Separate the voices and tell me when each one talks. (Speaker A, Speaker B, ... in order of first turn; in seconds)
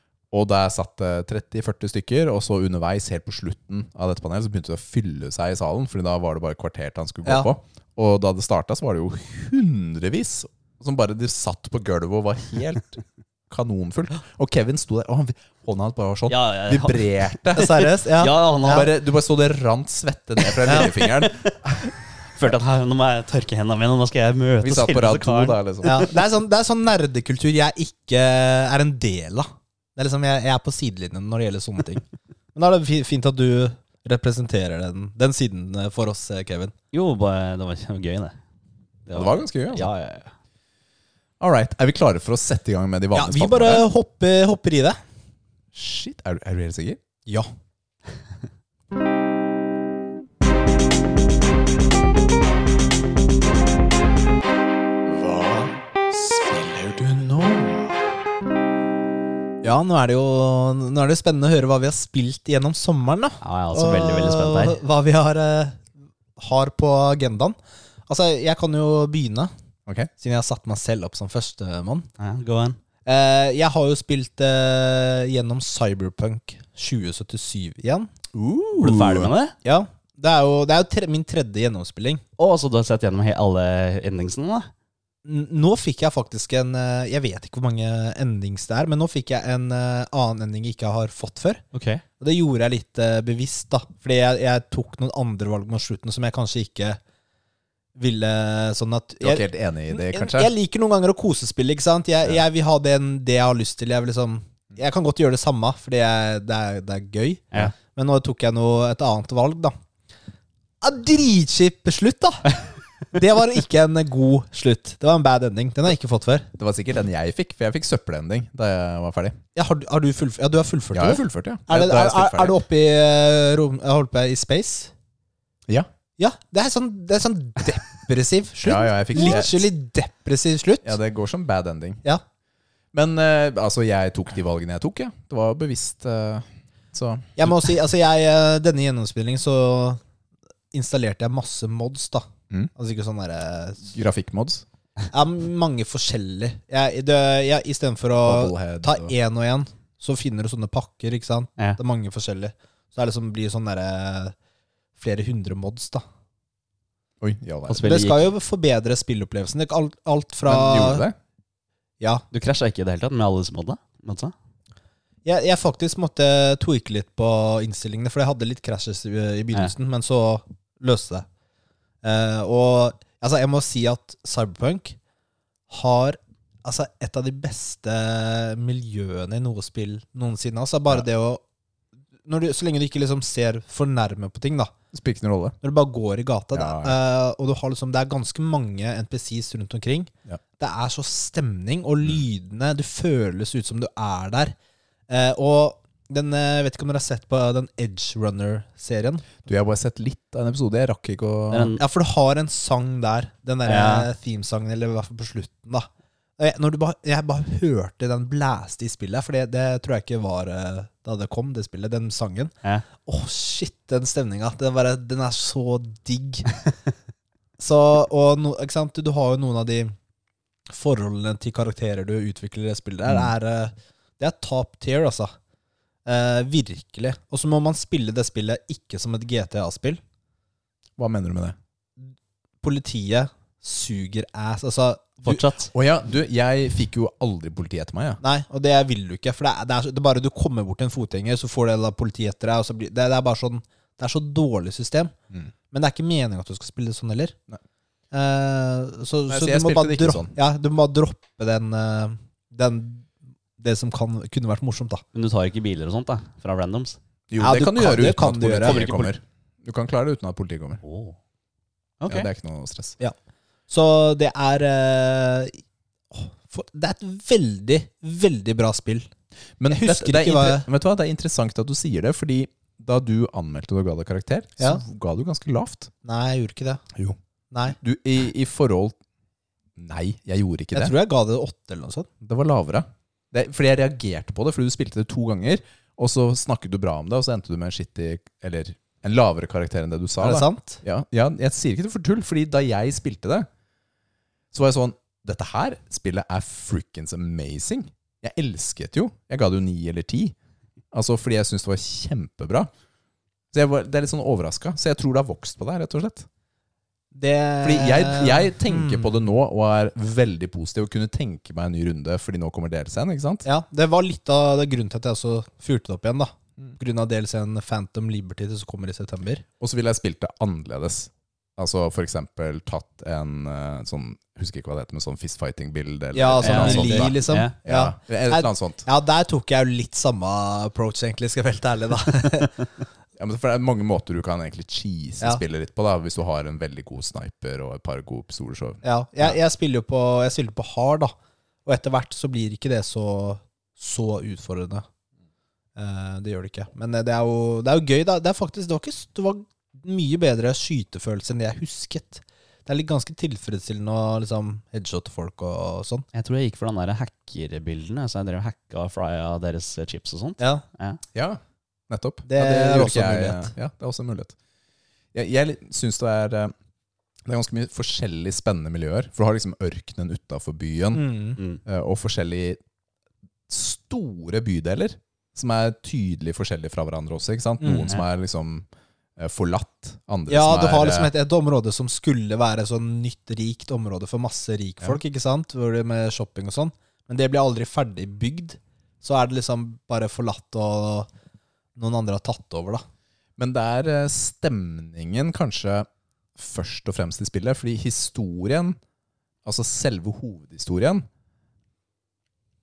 Speaker A: 0.3-17.8, 18.6-21.9, 24.6-25.9, 39.1-39.9, 41.4-43.8, 45.7-47.0, 78.3-79.3, 99.2-100.5, 116.5-119.4, 120.9-122.5, 128.6-129.7, 130.8-132.0, 132.9-137.7, 143.9-144.6, 148.2-149.1, 157.2-157.9, 160.4-161.1, 184.9-185.6, 186.5-187.0, 199.4-201.7, 231.0-231.6, 235.7-238.2, 249.3-250.3, 257.3-260.8, 262.1-263.0, 269.6-275.9, 276.9-279.0, 279.8-280.9, 282.2-293.5, 294.5-300.3, 300.9-302.7, 303.5-306.3, 307.6-313.4, 319.6-328.8, 333.2-339.4, 361.1-364.3, 365.1-366.5, 367.2-371.0, 371.6-372.6, 373.5-378.7, 379.2-381.1, 393.4-398.8, 399.4-401.1
Speaker B: 16.3-18.9, 20.4-26.1, 36.9-38.4, 39.1-40.3, 63.4-64.8, 72.2-72.8, 78.8-79.5, 82.4-84.7, 91.7-92.0, 157.7-158.2, 162.3-164.3, 201.5-201.8, 203.7-204.1, 235.2-235.7, 255.1-257.0, 258.6-259.1, 260.8-261.1, 262.0-262.3, 326.4-327.5, 356.1-361.0
Speaker C: 17.5-18.8, 25.8-32.0, 32.5-36.7, 43.1-45.0, 55.2-55.7, 56.3-57.9, 59.6-65.8, 66.4-67.5, 68.1-69.5, 70.2-72.1, 73.0-78.1, 79.6-82.2, 85.2-91.6, 92.2-97.0, 98.0-109.7, 110.8-112.5, 113.1-116.5, 119.5-124.9, 126.2-130.9, 137.4-140.0, 140.7-143.9, 145.1-154.3, 155.0-156.0, 157.8-161.1, 165.2-171.2, 172.0-175.0, 175.7-181.4, 182.3-184.7, 185.6-194.5, 195.1-199.3, 201.8-216.5, 217.6-219.9, 220.7-225.3, 226.1-230.0, 232.6-235.5, 238.2-245.1, 245.7-247.3, 248.1-253.1, 253.6-255.0, 257.4-258.8, 263.7-265.6, 266.1-269.1, 269.7-270.7, 276.0-276.8, 280.7-282.1, 290.2-290.8, 307.1-309.1, 313.4-319.4, 326.1-332.5, 338.8-341.1, 341.6-344.8, 345.8-356.0, 362.3-363.5, 370.9-371.4, 377.6-377.9, 380.3-391.1, 391.8-392.8